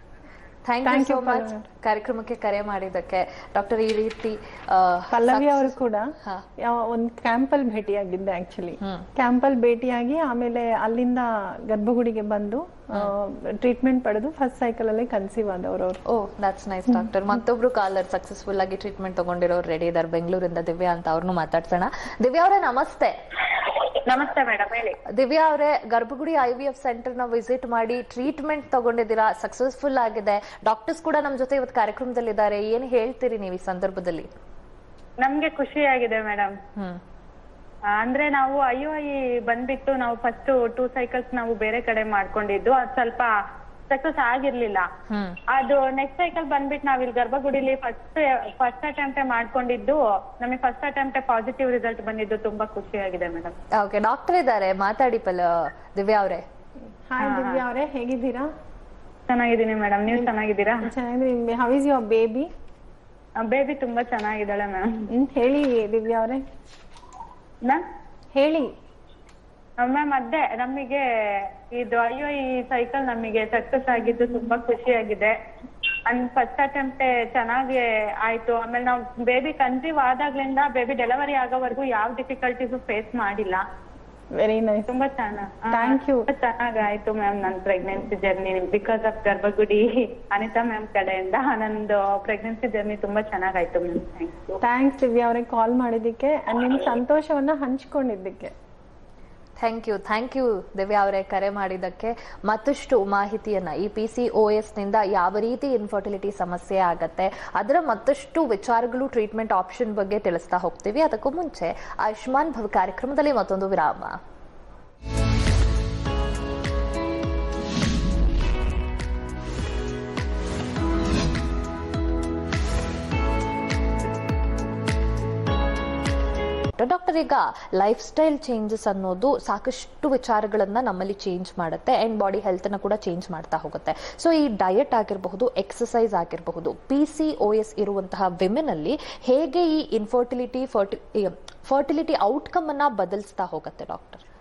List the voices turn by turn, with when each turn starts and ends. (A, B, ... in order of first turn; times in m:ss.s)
0:00.6-0:06.4 A
0:00.8-0:01.6 B
0:05.1-0:16.0 B
0:08.8-0:09.1 A
0:16.1-0:23.2 A
0:23.9-0:25.0 C
0:25.1-0:34.3 A
0:35.2-0:36.5 C
0:36.8-0:37.0 A
0:37.9-0:43.3 C
0:43.9-0:44.9 C
0:45.1-0:45.4 A
0:45.5-0:53.6 C
0:53.8-0:56.4 A
0:57.1-0:58.5 B
0:57.2-0:57.6 C
0:59.3-1:00.9 C
1:00.8-1:02.5 B
1:03.4-1:05.1 C
1:05.1-1:06.4 B
1:08.3-1:08.7 B
1:09.8-1:15.3 C
1:16.1-1:23.6 C
1:24.4-1:24.9 B
1:24.9-1:34.6 C
1:25.7-1:26.3 B
1:34.6-1:38.5 B
1:39.6-1:54.2 A
2:06.8-2:24.2 A